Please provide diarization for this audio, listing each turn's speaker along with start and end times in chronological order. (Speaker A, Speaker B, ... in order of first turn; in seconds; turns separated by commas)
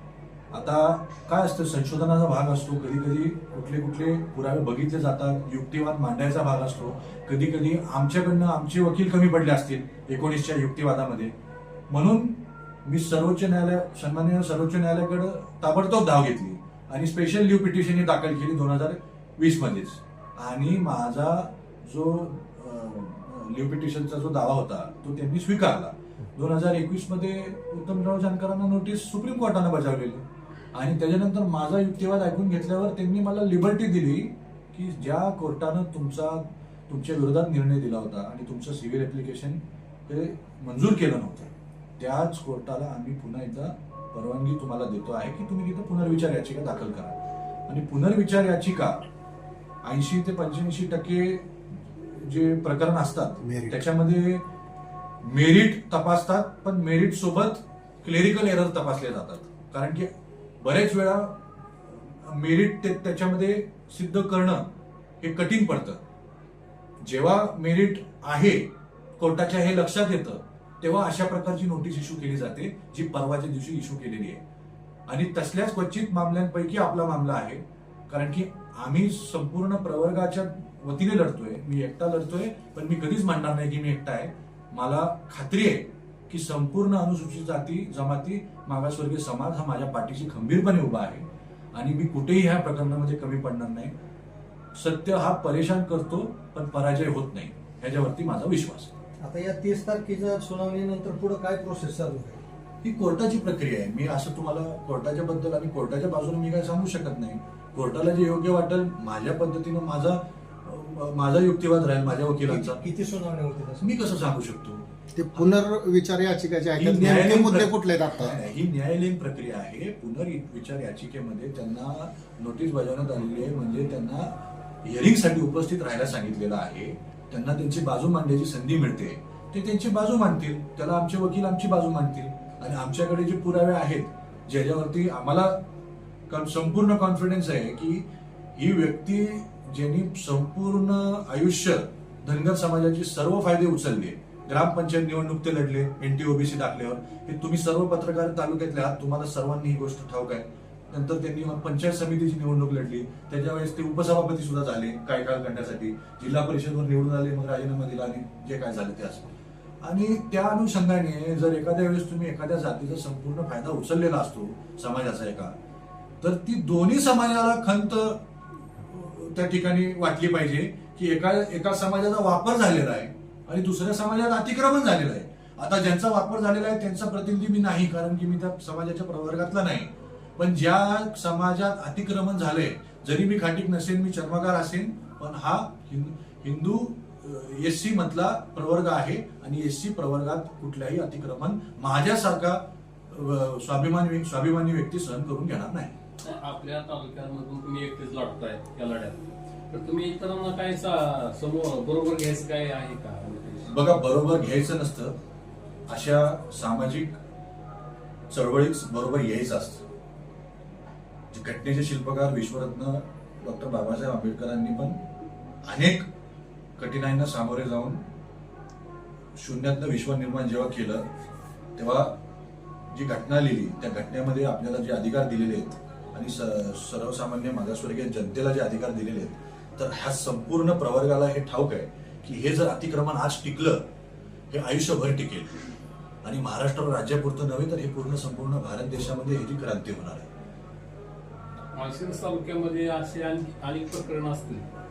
Speaker A: 0.5-11.3, Speaker A: 11.9-30.2, Speaker A: 30.7-49.0, Speaker A: 49.8-54.4, Speaker B: 53.4-53.8, Speaker A: 55.2-60.1, Speaker A: 60.6-64.7, Speaker A: 65.2-66.0, Speaker A: 67.0-74.4, Speaker A: 75.1-93.9, Speaker A: 94.7-99.0, Speaker C: 99.2-102.4, Speaker A: 102.8-112.8, Speaker C: 112.4-113.9, Speaker A: 113.8-114.8, Speaker B: 115.1-118.3, Speaker A: 116.8-124.3, Speaker A: 124.8-135.6, Speaker A: 136.3-159.3, Speaker A: 159.8-165.5, Speaker A: 166.2-168.2, Speaker A: 168.8-196.0, Speaker D: 196.2-203.8, Speaker A: 203.7-205.1, Speaker A: 205.9-207.2, Speaker A: 208.3-209.8, Speaker A: 211.3-215.0, Speaker A: 215.6-216.1, Speaker A: 216.8-218.0, Speaker A: 219.4-221.1, Speaker A: 221.8-222.1, Speaker A: 222.9-233.8, Speaker A: 234.5-235.7, Speaker A: 236.2-240.3, Speaker D: 241.7-244.7